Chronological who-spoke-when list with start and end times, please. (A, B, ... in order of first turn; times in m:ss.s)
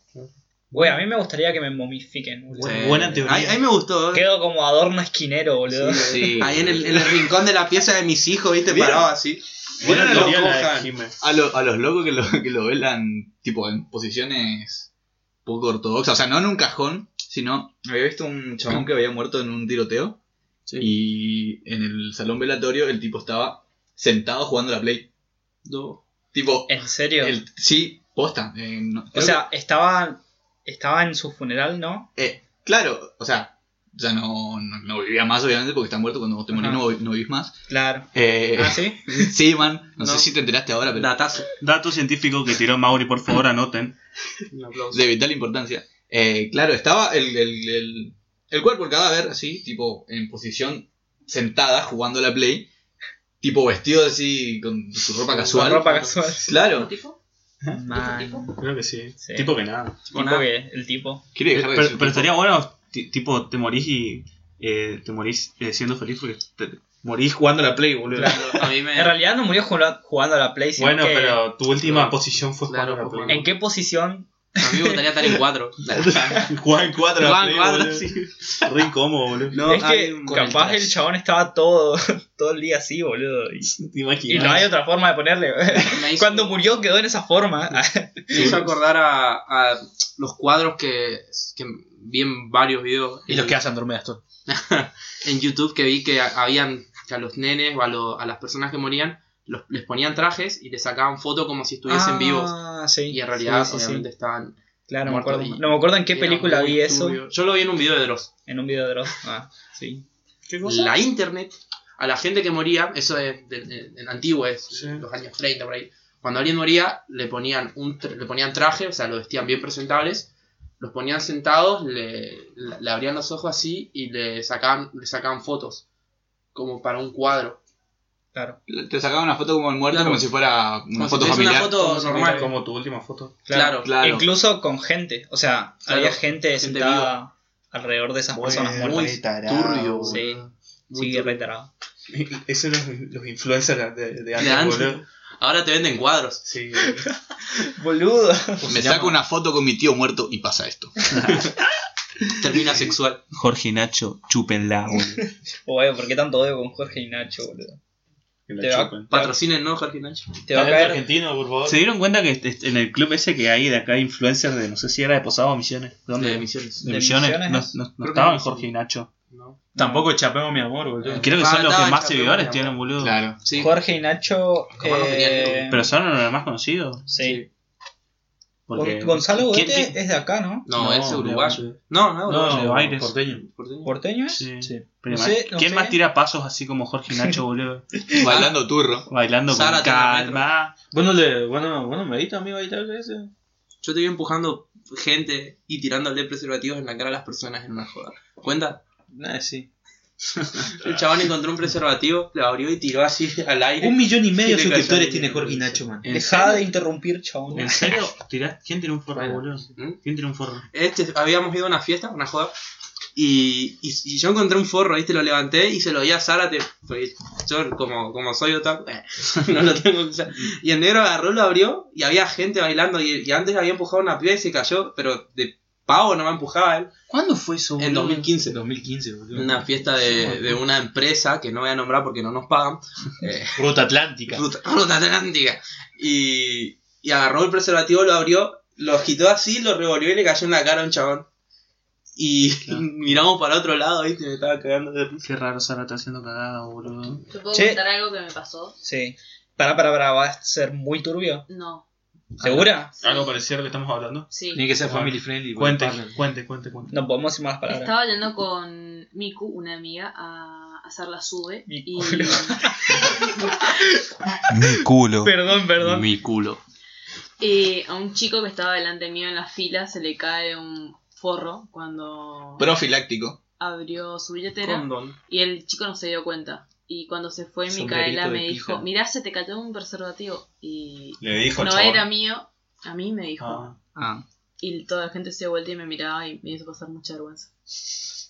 0:00.2-0:01.0 A
0:00.7-0:03.3 B
0:02.5-0:03.7 A
0:02.6-0:04.3 C
0:04.1-0:06.1 B
0:05.8-0:10.9 C
0:06.0-0:07.1 D
0:08.7-0:09.0 D
0:09.8-0:11.2 A
0:10.0-0:10.3 D
0:11.2-0:14.9 D
0:15.4-0:20.2 D
0:20.8-0:25.1 D
0:25.6-0:26.0 C
0:26.3-0:29.5 D
0:26.7-0:27.4 B
0:29.1-0:32.1 B
0:32.2-0:37.5 D
0:36.5-0:36.8 B
0:37.7-0:39.3 B
0:38.1-0:41.1 D
0:40.0-0:40.3 C
0:40.9-0:41.5 C
0:41.6-0:44.0 A
0:44.5-0:45.1 C
0:44.9-0:52.7 D
0:53.4-0:55.9 D
0:55.5-0:56.5 B
0:56.4-0:57.2 E
0:56.4-0:56.9 D
0:57.7-0:58.6 B
0:57.9-0:58.6 E
0:58.6-1:00.0 A
0:59.2-1:01.2 B
1:00.1-1:00.5 C
1:01.4-1:02.4 D
1:01.5-1:08.5 A
1:08.2-1:09.2 C
1:08.2-1:11.4 B
1:10.8-1:13.5 A
1:11.8-1:13.4 C
1:13.3-1:15.0 B
1:14.6-1:16.0 C
1:15.9-1:16.5 D
1:16.3-1:19.6 A
1:17.2-1:18.3 C
1:19.5-1:20.9 C
1:19.7-1:23.7 B
1:20.3-1:20.6 F
1:23.7-1:24.7 A
1:24.3-1:28.6 B
1:25.7-1:26.7 C
1:28.3-1:33.6 C
1:28.3-1:28.6 A
1:33.3-1:34.2 F
1:34.5-1:42.6 C
1:41.9-1:44.1 B
1:43.1-1:48.3 C
1:44.9-1:47.2 B
1:48.5-1:50.0 B
1:50.5-1:51.0 A
1:50.6-2:05.8 C
1:54.7-1:55.0 A
2:06.5-2:07.6 C
2:08.7-2:11.7 D
2:09.9-2:10.3 C
2:10.9-2:12.6 C
2:11.5-2:13.4 A
2:13.5-2:19.2 B
2:13.5-2:13.9 C
2:13.8-2:14.3 D
2:15.9-2:17.1 C
2:18.3-2:20.3 A
2:18.8-2:20.4 C
2:20.1-2:20.4 B
2:20.9-2:21.4 C
2:20.9-2:21.7 B
2:22.1-2:25.0 A
2:24.4-2:26.4 C
2:26.4-2:27.1 A
2:27.0-2:28.7 B
2:28.7-2:31.2 D
2:28.7-2:29.2 F
2:32.4-2:33.2 C
2:33.3-2:35.3 A
2:35.2-2:37.8 B
2:38.5-2:39.1 A
2:38.6-2:39.4 B
2:39.1-2:40.4 C
2:40.5-2:41.0 B
2:40.5-2:41.8 F
2:41.6-2:49.1 A
2:46.2-2:46.8 C
2:46.8-2:47.8 B
2:48.0-2:48.4 F
2:48.3-2:48.6 C
2:49.3-2:49.6 C
2:49.8-2:51.4 F
2:49.8-2:50.1 B
2:51.0-2:52.8 C
2:51.2-2:53.2 A
2:53.0-2:53.4 D
2:53.4-2:53.8 C
2:53.6-2:55.8 B
2:54.8-2:55.8 C
2:55.7-2:57.1 A
2:57.1-2:57.4 B
2:58.7-2:59.8 A
2:58.7-3:00.7 B
3:00.7-3:02.8 C
3:00.8-3:01.7 F
3:02.3-3:03.5 F
3:02.4-3:03.1 A
3:03.4-3:03.9 C
3:03.8-3:04.5 B
3:04.3-3:08.0 A
3:04.6-3:04.9 F
3:05.1-3:06.0 B
3:08.2-3:09.1 D
3:09.1-3:10.8 A
3:09.5-3:10.5 C
3:10.9-3:13.3 F
3:13.8-3:18.8 C
3:19.1-3:19.7 F
3:20.8-3:25.8 C
3:23.8-3:26.1 F
3:26.0-3:26.6 A
3:26.1-3:28.0 B
3:27.5-3:30.7 A
3:29.1-3:29.5 F
3:30.7-3:32.5 C
3:33.2-3:46.9 C
3:47.1-3:50.5 F
3:47.8-3:48.6 C
3:49.3-3:53.6 C
3:53.3-3:54.4 F
3:54.3-4:01.3 C
4:02.2-4:05.3 C
4:05.2-4:07.2 A
4:07.3-4:08.8 E
4:07.5-4:07.8 B
4:08.8-4:11.5 B
4:11.5-4:11.8 E
4:12.4-4:12.9 B
4:12.4-4:12.7 F
4:13.0-4:16.9 A
4:13.0-4:13.3 E
4:14.3-4:14.7 E
4:14.5-4:16.2 F
4:16.9-4:17.9 B
4:17.7-4:23.7 E
4:21.7-4:26.1 B
4:25.8-4:26.6 C
4:27.4-4:32.7 E
4:32.6-4:33.4 D
4:33.6-4:43.7 E
4:34.6-4:35.2 C
4:37.7-4:38.8 F
4:41.2-4:42.1 A
4:43.4-4:43.8 A
4:44.0-4:44.2 B
4:44.6-4:47.5 E